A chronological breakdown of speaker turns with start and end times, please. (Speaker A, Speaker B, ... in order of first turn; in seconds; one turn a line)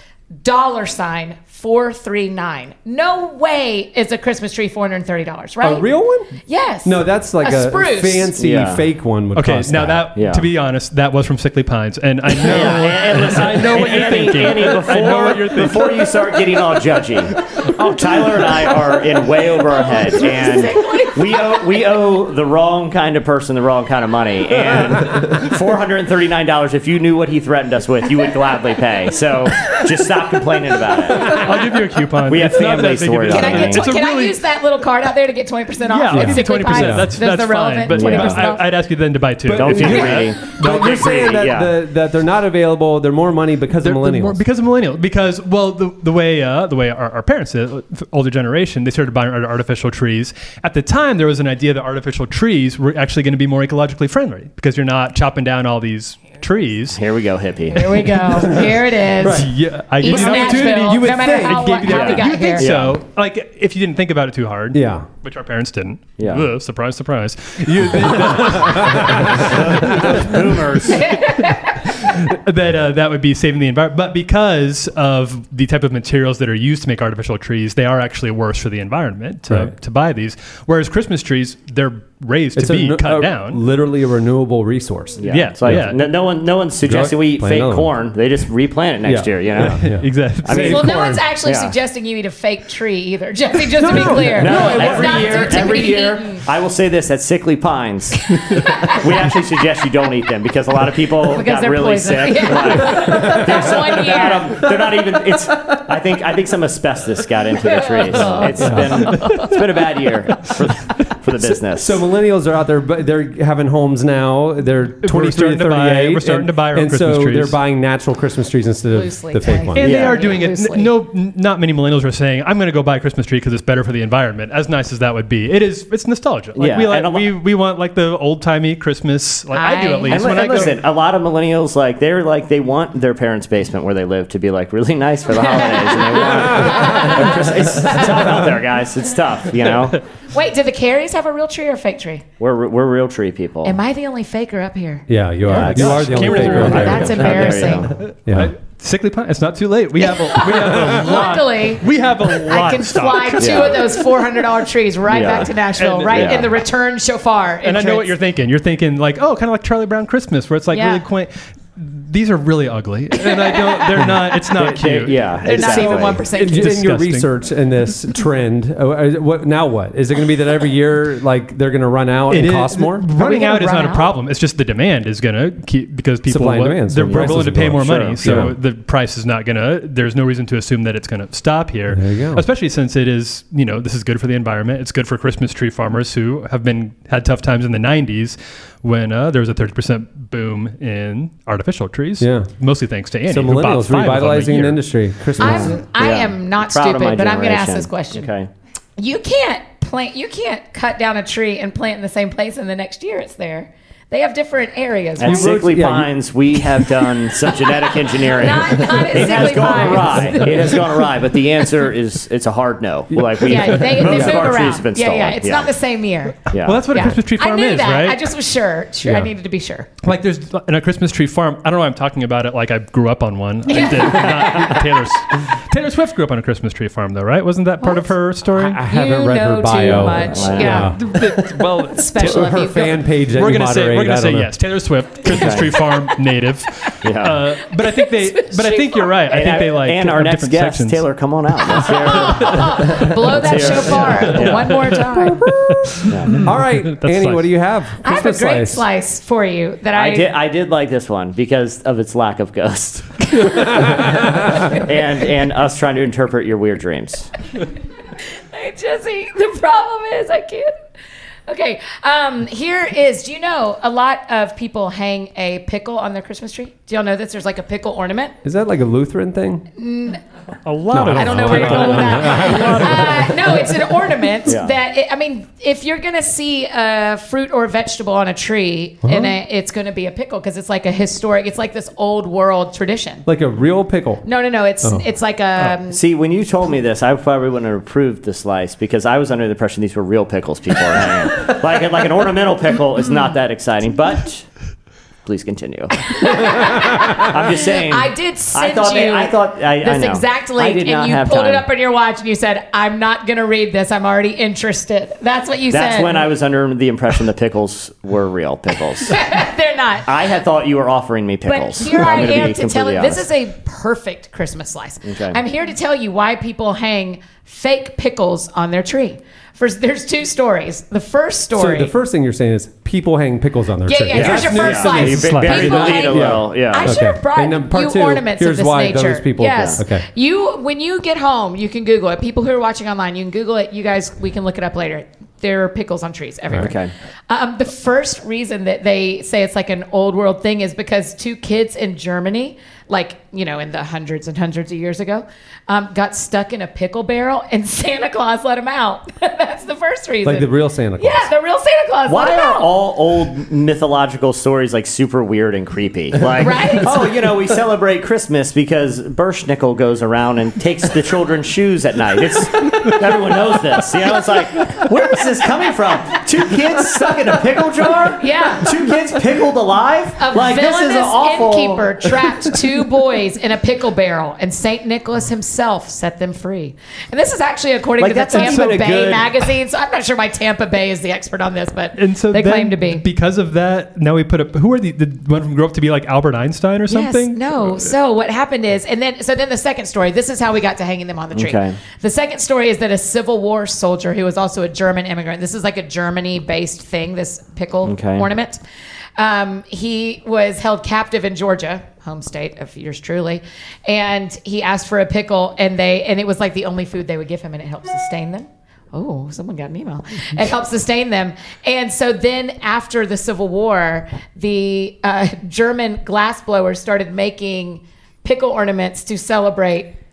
Speaker A: 0.4-5.9
Speaker B: 5.6-6.3
Speaker A: 6.5-8.3
Speaker B: 6.8-10.1
Speaker C: 8.4-8.8
Speaker D: 9.3-16.1
Speaker C: 10.2-10.5
Speaker C: 12.4-31.5
Speaker A: 20.1-21.8
Speaker D: 31.2-34.4
Speaker C: 32.3-33.9
Speaker A: 33.3-38.6
Speaker D: 35.9-40.4
Speaker B: 36.1-37.1
Speaker C: 37.9-38.4
Speaker B: 39.4-44.4
Speaker C: 39.5-41.7
Speaker D: 43.8-57.0
Speaker C: 56.9-58.0
Speaker A: 57.7-59.5
Speaker B: 59.2-61.8
Speaker D: 59.3-70.4
Speaker A: 60.0-62.7
Speaker C: 61.9-63.0
Speaker B: 64.7-65.0
Speaker C: 66.2-66.5
Speaker B: 68.1-69.5
Speaker C: 69.4-71.1
Speaker A: 70.9-71.8
Speaker D: 71.8-83.6
Speaker B: 79.5-79.7
Speaker B: 82.5-86.0
Speaker C: 85.2-89.8
Speaker D: 85.2-86.0
Speaker B: 86.8-87.9
Speaker B: 89.0-91.2
Speaker D: 89.6-90.8
Speaker C: 90.4-91.7
Speaker A: 90.5-96.4
Speaker B: 93.7-95.8
Speaker C: 94.0-112.0
Speaker A: 101.3-104.6
Speaker A: 107.8-108.8
Speaker B: 108.6-109.1
Speaker D: 109.2-109.5
Speaker B: 111.4-119.9
Speaker D: 115.0-117.5
Speaker A: 118.9-120.9
Speaker D: 119.8-130.8
Speaker C: 119.8-120.3
Speaker C: 126.5-127.3
Speaker A: 129.5-130.3
Speaker C: 130.1-140.0
Speaker A: 135.4-138.1
Speaker A: 140.3-142.2
Speaker C: 142.4-143.8
Speaker A: 143.6-145.1
Speaker B: 145.1-147.5
Speaker C: 145.4-147.9
Speaker D: 145.5-154.0
Speaker A: 146.6-147.9
Speaker B: 148.2-148.5
Speaker A: 150.0-158.1
Speaker C: 153.4-153.8
Speaker C: 155.1-155.5
Speaker D: 155.7-156.4
Speaker C: 156.1-156.5
Speaker D: 157.6-167.3
Speaker A: 160.7-161.0
Speaker A: 163.2-163.9
Speaker C: 164.6-166.2
Speaker A: 165.4-166.8
Speaker B: 166.3-173.1
Speaker D: 172.3-194.8
Speaker A: 173.1-174.1
Speaker B: 176.3-178.6
Speaker C: 178.0-178.5
Speaker B: 181.9-182.4
Speaker B: 192.2-192.5
Speaker B: 193.3-195.8
Speaker A: 195.4-198.3
Speaker C: 196.0-198.5
Speaker A: 199.0-205.5
Speaker C: 205.2-215.7
Speaker B: 205.2-206.1
Speaker A: 208.2-210.8
Speaker A: 213.4-219.9
Speaker B: 213.9-214.5
Speaker C: 216.5-216.8
Speaker D: 216.6-218.2
Speaker B: 219.0-219.3
Speaker D: 220.0-228.8
Speaker A: 223.7-224.6
Speaker A: 227.8-233.0
Speaker B: 228.6-234.5
Speaker C: 230.3-230.9
Speaker D: 230.9-232.4
Speaker D: 233.3-241.0
Speaker C: 235.3-235.7
Speaker C: 237.0-237.4
Speaker A: 237.8-239.6
Speaker C: 239.3-244.9
Speaker A: 241.7-245.4
Speaker D: 242.3-247.5
Speaker B: 245.2-248.8
Speaker C: 246.1-246.4
Speaker A: 248.0-250.3
Speaker C: 249.9-257.3
Speaker B: 253.8-254.2
Speaker A: 258.5-260.8
Speaker A: 261.5-268.3
Speaker B: 268.4-269.6
Speaker A: 269.8-270.2
Speaker D: 270.6-273.6
Speaker B: 270.9-273.3
Speaker A: 271.0-283.2
Speaker C: 274.4-274.7
Speaker B: 279.0-279.4
Speaker B: 283.2-284.2
Speaker A: 284.2-286.0
Speaker C: 285.9-294.5
Speaker C: 295.2-301.6
Speaker A: 296.0-306.3
Speaker C: 305.7-309.2
Speaker A: 309.1-310.1
Speaker C: 310.0-313.2
Speaker A: 311.4-321.9
Speaker C: 315.1-315.4
Speaker B: 321.5-325.3
Speaker A: 323.9-336.8
Speaker C: 324.1-327.0
Speaker D: 324.3-326.1
Speaker B: 325.9-330.0
Speaker C: 336.5-336.9
Speaker A: 337.3-352.7
Speaker B: 350.2-351.3
Speaker C: 352.1-372.4
Speaker A: 356.4-357.0
Speaker A: 368.2-368.7
Speaker A: 370.2-383.0
Speaker C: 378.0-379.4
Speaker D: 378.3-378.7
Speaker D: 381.9-387.4
Speaker A: 386.9-398.6
Speaker C: 391.3-391.8
Speaker C: 397.8-398.2
Speaker A: 399.2-419.9